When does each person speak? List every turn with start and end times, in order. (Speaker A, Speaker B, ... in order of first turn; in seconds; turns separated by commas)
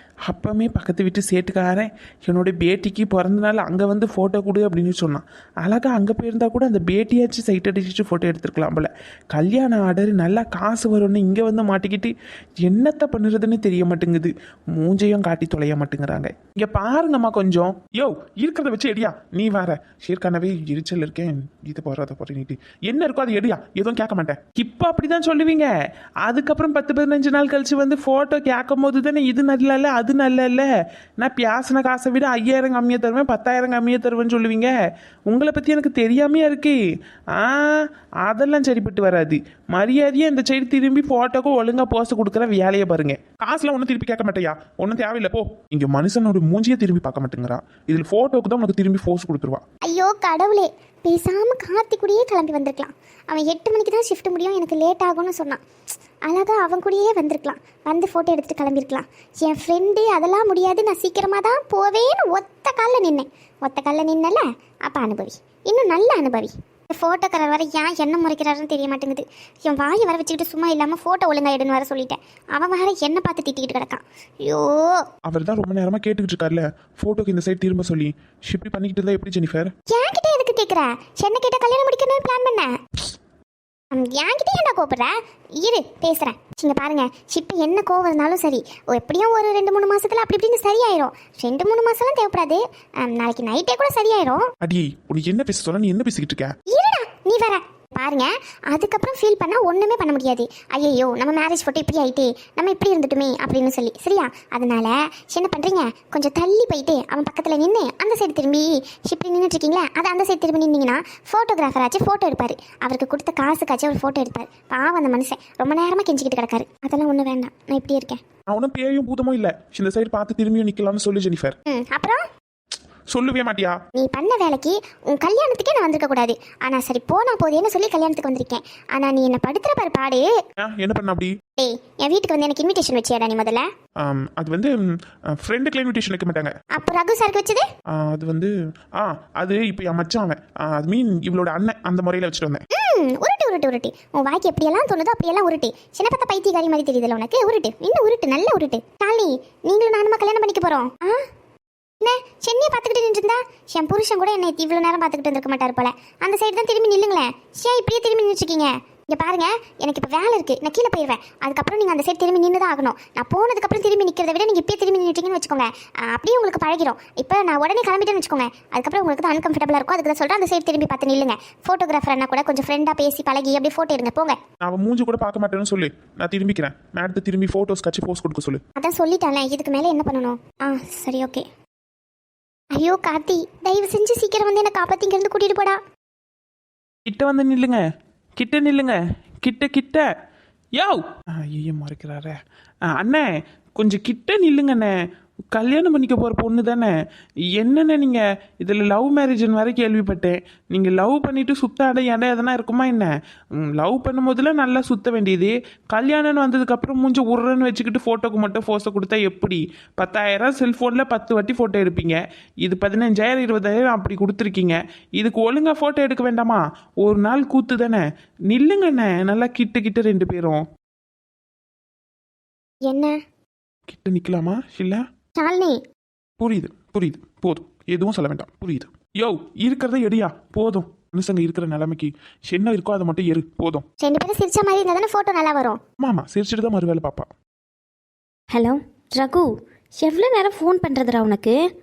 Speaker A: 0.2-25.7, Speaker A: 26.2-34.7, Speaker A: 35.3-36.8, Speaker A: 37.3-49.6, Speaker B: 49.8-55.6, Speaker B: 56.2-75.0, Speaker A: 75.2-79.7, Speaker B: 79.9-83.0, Speaker B: 83.9-94.5, Speaker A: 94.6-96.5, Speaker B: 96.7-118.2, Speaker A: 118.5-121.5, Speaker B: 121.7-122.2, Speaker A: 123.1-123.8, Speaker B: 124.0-130.3, Speaker A: 130.6-131.3, Speaker B: 131.6-133.6, Speaker A: 134.0-136.5, Speaker B: 136.8-137.6, Speaker A: 137.9-142.6, Speaker B: 142.7-151.2, Speaker B: 152.0-174.3, Speaker A: 174.6-178.6, Speaker B: 178.8-181.4, Speaker B: 182.7-185.8, Speaker A: 187.1-187.8, Speaker A: 188.4-190.1, Speaker A: 190.7-194.9, Speaker A: 195.5-196.9, Speaker A: 197.5-220.7, Speaker B: 222.8-223.1, Speaker A: 223.9-225.0, Speaker B: 225.3-225.8, Speaker A: 226.4-233.8, Speaker B: 234.0-235.8, Speaker A: 236.0-237.3, Speaker C: 238.5-241.6